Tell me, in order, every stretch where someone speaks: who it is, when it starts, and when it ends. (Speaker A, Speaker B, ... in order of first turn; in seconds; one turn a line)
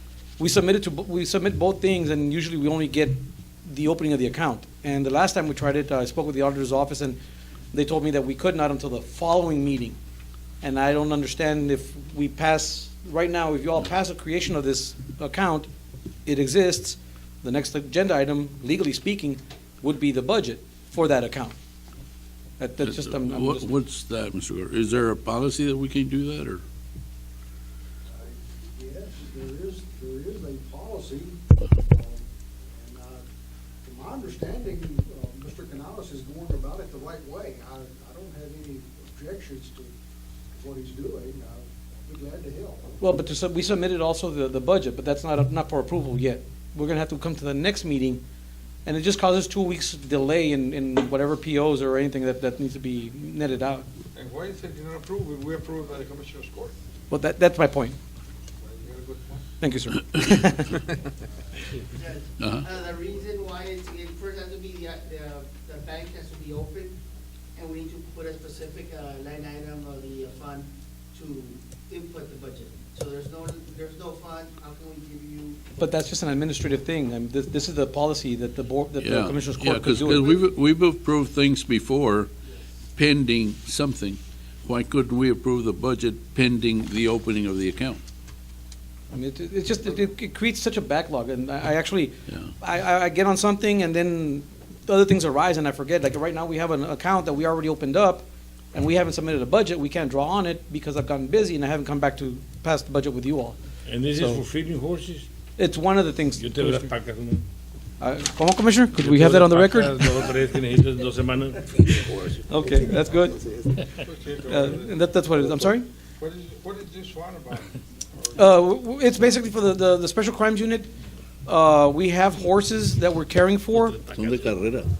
Speaker A: 0.4-7.2
Speaker A: 7.7-10.0
Speaker A: 10.6-15.7
Speaker A: 16.2-21.6
Speaker A: 22.6-23.7
Speaker B: 22.8-26.6
Speaker C: 28.1-33.2
Speaker C: 33.8-39.9
Speaker C: 40.5-42.9
Speaker A: 43.0-48.2
Speaker A: 48.8-53.9
Speaker D: 54.1-56.7
Speaker A: 57.1-58.0
Speaker D: 58.6-59.4
Speaker A: 59.6-60.8
Speaker E: 61.8-67.0
Speaker B: 62.4-62.7
Speaker E: 67.5-75.6
Speaker A: 75.8-80.4
Speaker B: 79.0-82.3
Speaker B: 83.0-88.0
Speaker A: 89.1-103.6
Speaker F: 103.8-105.3
Speaker A: 104.1-104.4
Speaker A: 105.6-106.9
Speaker F: 106.4-107.5
Speaker A: 108.0-110.2
Speaker F: 109.0-112.0
Speaker A: 112.3-113.4
Speaker D: 114.0-115.1
Speaker A: 114.5-115.9
Speaker D: 116.2-118.5
Speaker A: 118.4-120.9
Speaker A: 121.4-124.0
Speaker F: 124.0-124.8
Speaker B: 124.1-124.9